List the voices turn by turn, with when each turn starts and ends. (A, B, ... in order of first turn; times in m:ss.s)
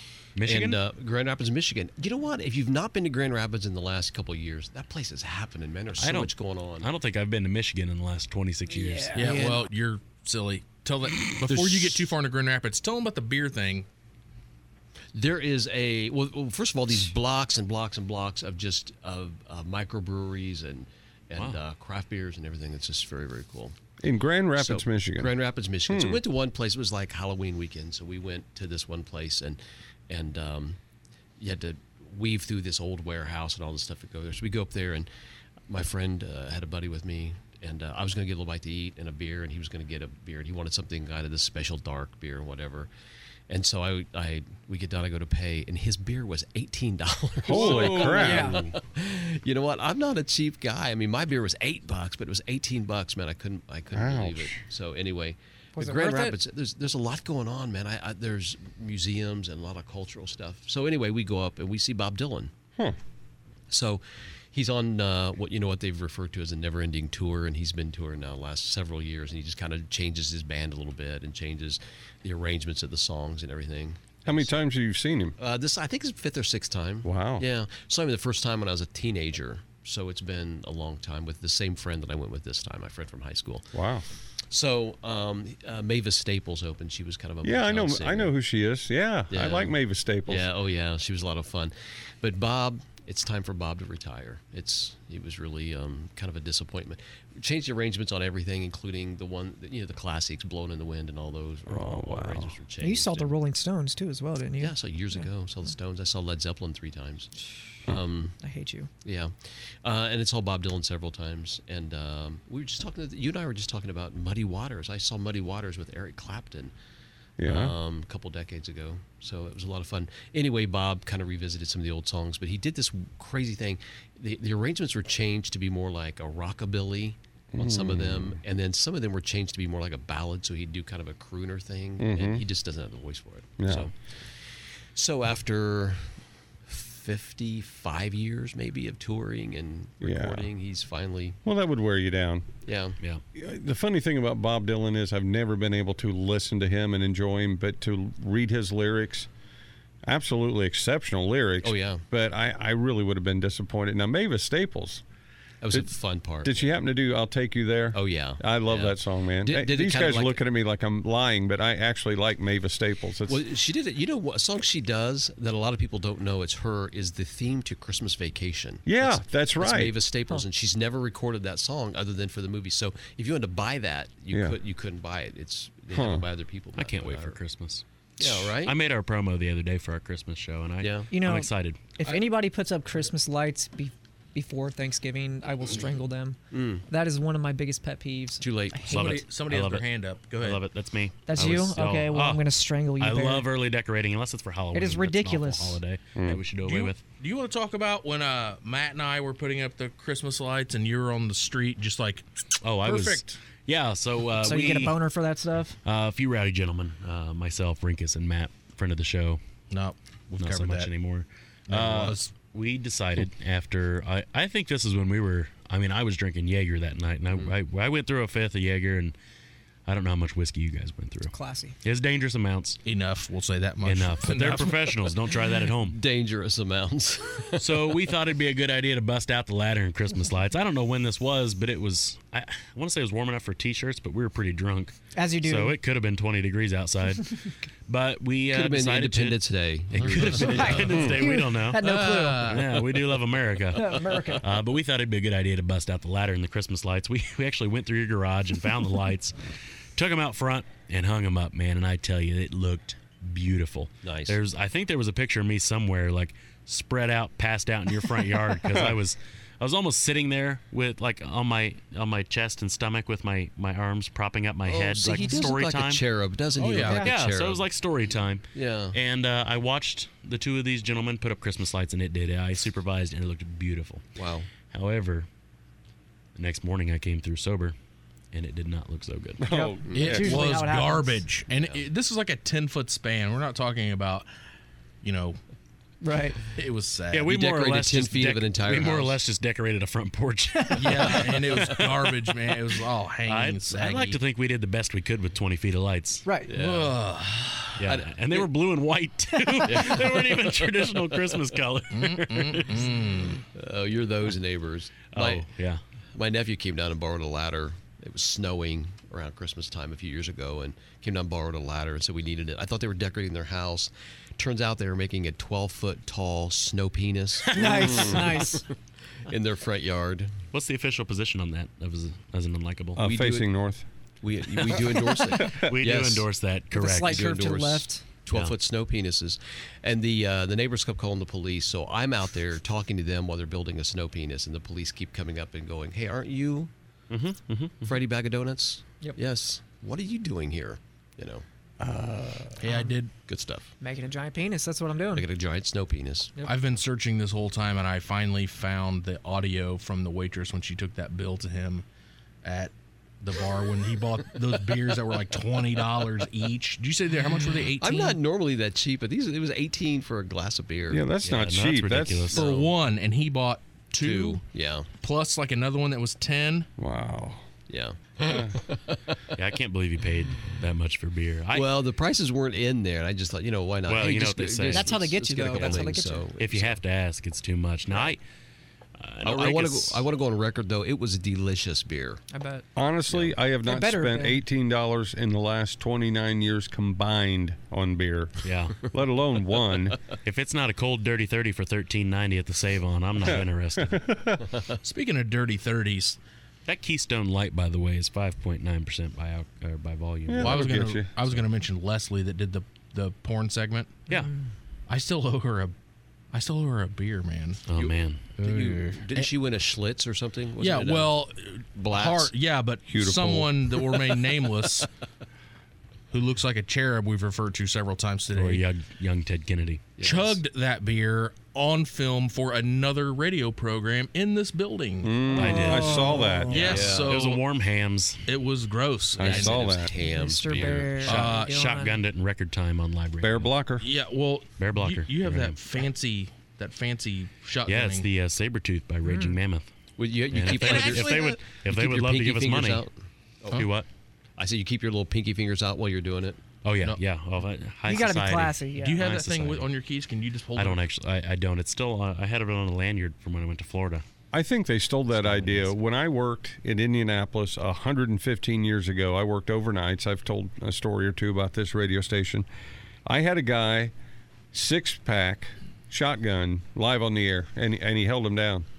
0:00.4-0:00.8 A
0:00.4-0:06.9 B
0:06.0-0:09.5 A
0:08.7-0:09.6 C
0:09.2-0:13.9 D
0:11.4-0:12.0 A
0:15.1-0:23.8 B
0:21.4-0:21.6 A
0:24.0-0:26.2 E
0:24.6-0:30.8 B
0:31.4-0:35.1 B
0:35.7-0:42.9 B
0:43.5-1:02.5 B
0:47.4-0:48.7 E
0:47.6-0:48.6 C
0:53.9-0:54.6 E
0:55.8-0:56.4 C
1:03.7-1:14.5 B
1:14.2-1:15.4 E
1:15.4-1:23.8 B
1:17.0-1:17.5 E
1:23.7-1:24.0 E
1:24.5-1:28.4 B
1:27.4-1:30.5 E
1:29.3-1:43.4 B
1:41.7-1:42.5 E
1:42.8-1:45.3 C
1:44.6-1:47.4 B
1:47.9-1:48.4 B
1:48.4-1:48.9 C
1:49.0-1:56.7 B
1:57.4-1:57.8 E
1:57.4-2:13.9 B
2:07.5-2:08.4 E
2:12.0-2:12.4 E
2:13.6-2:13.9 E
2:14.9-2:16.1 B
2:16.7-2:21.4 B
2:20.0-2:20.5 E
2:21.4-2:22.5 E
2:22.6-2:23.0 B
2:23.4-2:29.3 E
2:30.1-2:35.0 E
2:31.6-2:32.1 B
2:35.6-2:36.8 B
2:35.7-2:43.4 E
2:37.9-2:40.4 B
2:43.3-2:57.4 B
2:48.8-2:50.0 E
2:54.3-2:54.6 E
2:55.9-2:56.3 E
2:56.8-3:01.8 A
2:58.2-2:58.8 B
3:00.8-3:01.1 B
3:01.1-3:09.2 C
3:06.5-3:06.8 B
3:08.4-3:09.1 B
3:08.9-3:12.4 A
3:09.2-3:10.6 D
3:11.3-3:13.5 C
3:13.0-3:17.0 A
3:14.7-3:15.8 C
3:16.2-3:16.5 E
3:16.6-3:22.2 D
3:22.6-3:25.0 A
3:22.8-3:23.4 D
3:24.4-3:25.8 C
3:25.8-3:29.4 A
3:29.7-3:30.9 D
3:30.4-3:39.2 A
3:31.7-3:32.3 D
3:39.9-3:42.8 A
3:41.3-3:41.8 C
3:42.8-3:44.7 D
3:43.8-3:46.0 A
3:45.6-3:48.0 B
3:47.6-4:01.8 A
3:55.1-3:55.8 C
3:58.5-4:01.1 B
4:00.3-4:02.6 C
4:01.8-4:02.8 D
4:02.4-4:09.4 A
4:03.7-4:04.4 C
4:10.0-4:26.0 A
4:14.0-4:14.4 B
4:24.6-4:27.6 B
4:26.6-4:27.0 D
4:26.8-4:27.1 C
4:26.9-4:34.1 A
4:28.6-4:29.0 B
4:34.2-4:34.5 B
4:34.7-4:35.3 A
4:36.4-4:37.8 A
4:38.3-4:39.4 A
4:39.4-4:40.6 E
4:39.5-4:41.2 C
4:39.9-4:40.2 B
4:39.9-4:44.3 D
4:41.5-4:41.9 B
4:45.0-4:45.4 D
4:46.0-4:46.4 C
4:46.6-4:47.3 D
4:47.1-4:52.3 A
4:47.3-4:49.2 B
4:50.8-4:54.2 D
4:53.3-4:56.3 A
4:56.2-4:56.5 C
4:56.5-4:57.0 B
4:56.5-4:57.8 D
4:57.8-5:02.9 A
4:57.9-4:58.5 B
4:59.6-5:00.4 B
5:01.9-5:03.4 D
5:03.5-5:05.5 B
5:05.1-5:05.8 A
5:06.2-5:18.6 B
5:17.5-5:17.9 A
5:17.5-5:18.6 C
5:19.3-5:20.3 B
5:20.5-5:23.0 A
5:23.0-5:23.9 E
5:23.0-5:23.5 B
5:24.2-5:26.3 B
5:24.6-5:27.5 A
5:26.7-5:28.0 C
5:26.9-5:36.7 B
5:28.3-5:28.6 A
5:37.1-5:37.9 A
5:37.8-5:41.4 B
5:41.9-5:42.4 E
5:42.6-5:43.1 D
5:42.7-5:42.9 C
5:43.3-5:43.7 B
5:43.8-5:45.3 C
5:45.1-5:46.4 B
5:46.4-5:51.8 D
5:52.4-5:58.2 D
5:57.8-6:01.1 B
6:00.9-6:02.4 E
6:01.2-6:02.5 A
6:02.3-6:02.7 B
6:02.3-6:04.4 D
6:04.0-6:04.9 B
6:05.0-6:06.7 D
6:06.8-6:07.5 E
6:07.7-6:09.3 B
6:09.4-6:11.8 A
6:11.5-6:16.8 B
6:13.9-6:15.9 A
6:14.7-6:16.2 C
6:16.4-6:18.2 A
6:19.0-6:20.0 A
6:19.2-6:22.2 B
6:22.3-6:22.6 C
6:22.8-6:30.0 E
6:23.1-6:23.4 B
6:23.6-6:24.4 C
6:28.4-6:28.8 A
6:30.2-6:34.0 A
6:33.2-6:34.4 E
6:34.8-6:36.2 D
6:36.7-6:40.7 A
6:40.3-6:41.3 E
6:40.4-6:44.0 D
6:44.9-6:45.7 D
6:46.3-6:47.7 D
6:47.7-6:48.4 A
6:47.8-6:51.2 B
6:48.4-6:49.3 D
6:50.6-6:54.9 D
6:51.7-6:52.3 B
6:52.9-6:53.6 E
6:56.1-6:58.7 D
6:58.4-6:59.9 A
7:00.0-7:00.4 B
7:00.0-7:05.3 D
7:05.0-7:06.8 E
7:05.3-7:06.8 C
7:05.4-7:08.2 A
7:06.5-7:07.4 D
7:06.6-7:07.2 B
7:08.3-7:09.8 D
7:09.2-7:11.2 B
7:09.2-7:09.9 E
7:10.0-7:12.0 C
7:11.0-7:11.6 D
7:11.1-7:13.5 A
7:13.2-7:13.9 E
7:13.8-7:18.1 D
7:14.6-7:15.6 A
7:17.7-7:19.7 A
7:19.0-7:19.4 C
7:20.0-7:23.7 B
7:20.3-7:22.9 A
7:23.5-7:23.9 A
7:24.4-7:26.4 B
7:26.6-7:29.7 A
7:27.9-7:29.0 C
7:28.8-7:30.8 D
7:30.6-7:34.0 A
7:34.3-7:42.4 E
7:35.2-7:35.7 A
7:43.1-7:43.9 E
7:44.5-7:48.7 E